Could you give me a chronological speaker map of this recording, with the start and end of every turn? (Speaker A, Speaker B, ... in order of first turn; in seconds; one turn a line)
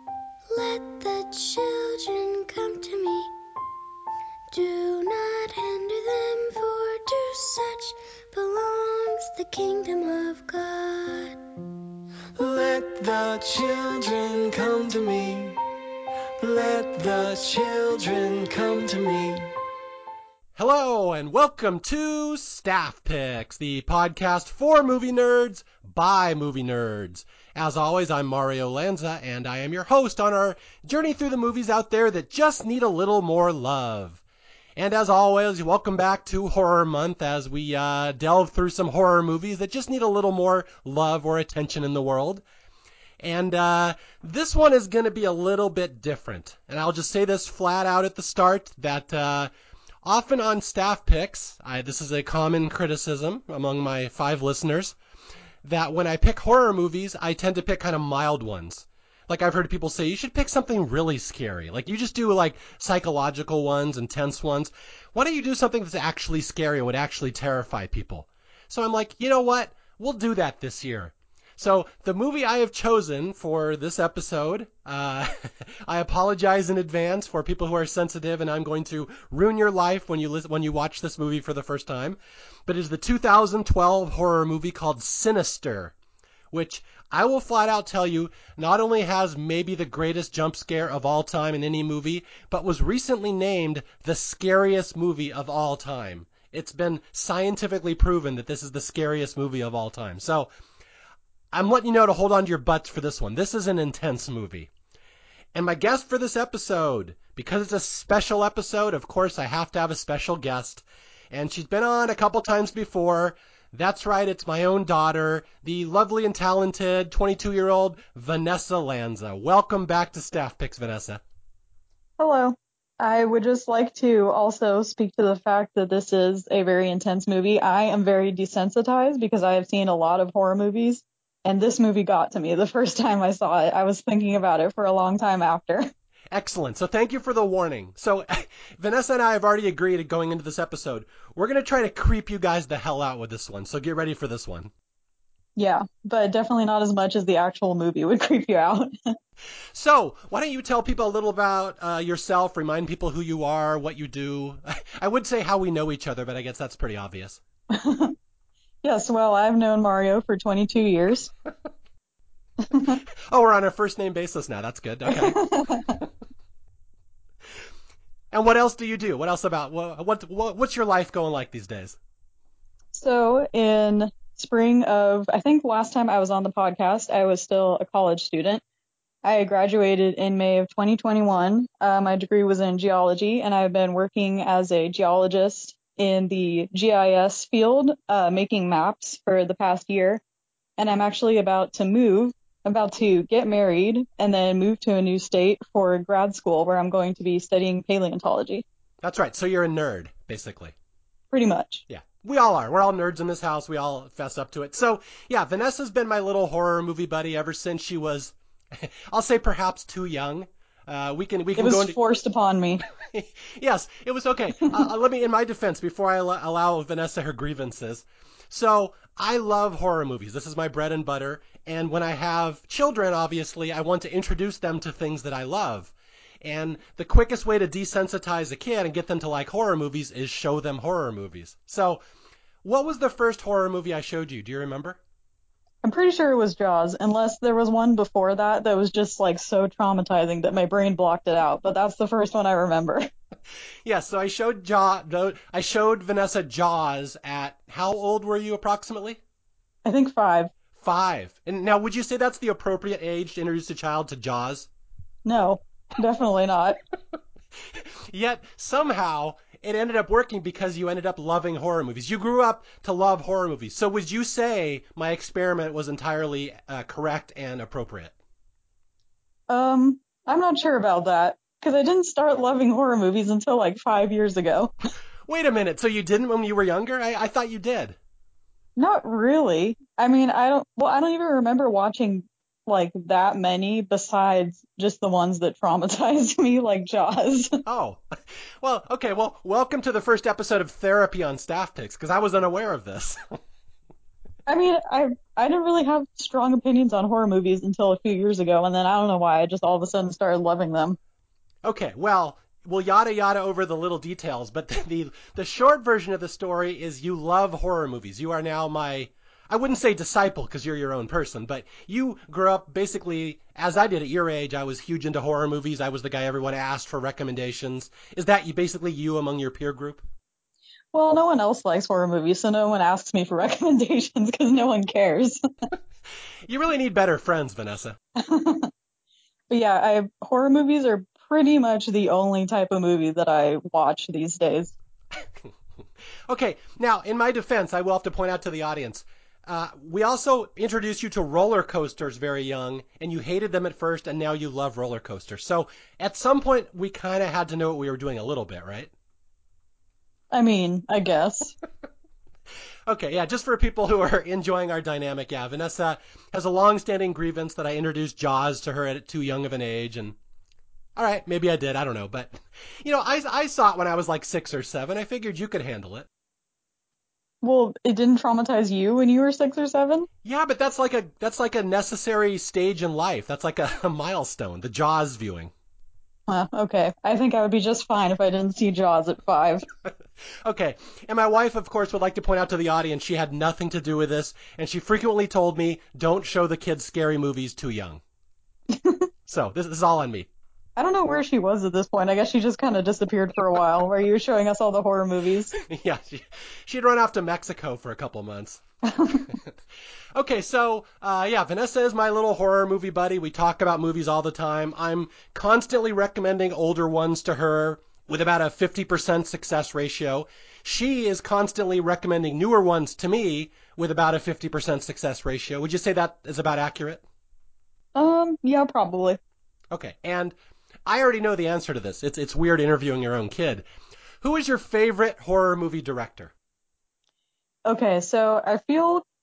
Speaker A: 0.5-3.3
Speaker A: 4.5-11.4
Speaker B: 12.3-15.6
Speaker B: 16.4-19.5
Speaker C: 20.6-34.2
Speaker C: 34.8-42.4
Speaker C: 43.2-49.5
Speaker C: 50.0-55.0
Speaker C: 55.6-85.9
Speaker C: 86.5-100.5
Speaker C: 101.5-104.7
Speaker C: 105.5-121.2
Speaker D: 122.2-135.9
Speaker C: 136.3-144.7
Speaker D: 145.6-148.9
Speaker C: 149.7-157.4
Speaker D: 157.7-158.1
Speaker D: 158.8-161.3
Speaker D: 162.6-163.0
Speaker C: 163.3-165.4
Speaker D: 165.1-166.0
Speaker C: 168.3-172.0
Speaker D: 172.9-178.6
Speaker D: 179.2-190.2
Speaker D: 190.8-198.6
Speaker C: 199.0-200.7
Speaker D: 201.3-201.8
Speaker C: 201.9-211.9
Speaker D: 211.6-212.8
Speaker C: 213.0-232.0
Speaker C: 232.6-235.0
Speaker D: 235.8-243.1
Speaker C: 243.8-249.2
Speaker D: 249.8-250.5
Speaker C: 250.8-254.7
Speaker D: 255.2-256.8
Speaker C: 257.7-268.1
Speaker D: 269.5-274.7
Speaker C: 275.3-278.0
Speaker D: 278.8-287.6
Speaker C: 287.6-293.4
Speaker D: 294.5-301.0
Speaker C: 301.6-320.0
Speaker D: 320.9-325.4
Speaker C: 326.5-328.0
Speaker D: 328.1-328.7
Speaker D: 329.5-334.7
Speaker C: 336.3-348.9
Speaker D: 350.3-351.5
Speaker C: 352.9-360.1
Speaker C: 360.9-366.1
Speaker D: 367.4-370.1
Speaker C: 370.2-375.5
Speaker D: 376.3-379.6
Speaker C: 380.4-388.0
Speaker D: 388.7-389.0
Speaker C: 389.3-390.3
Speaker D: 390.8-395.5
Speaker C: 395.5-399.4
Speaker D: 398.9-399.3
Speaker C: 400.1-417.0
Speaker D: 417.9-419.2
Speaker C: 419.7-423.6
Speaker C: 424.2-426.3
Speaker D: 427.6-429.0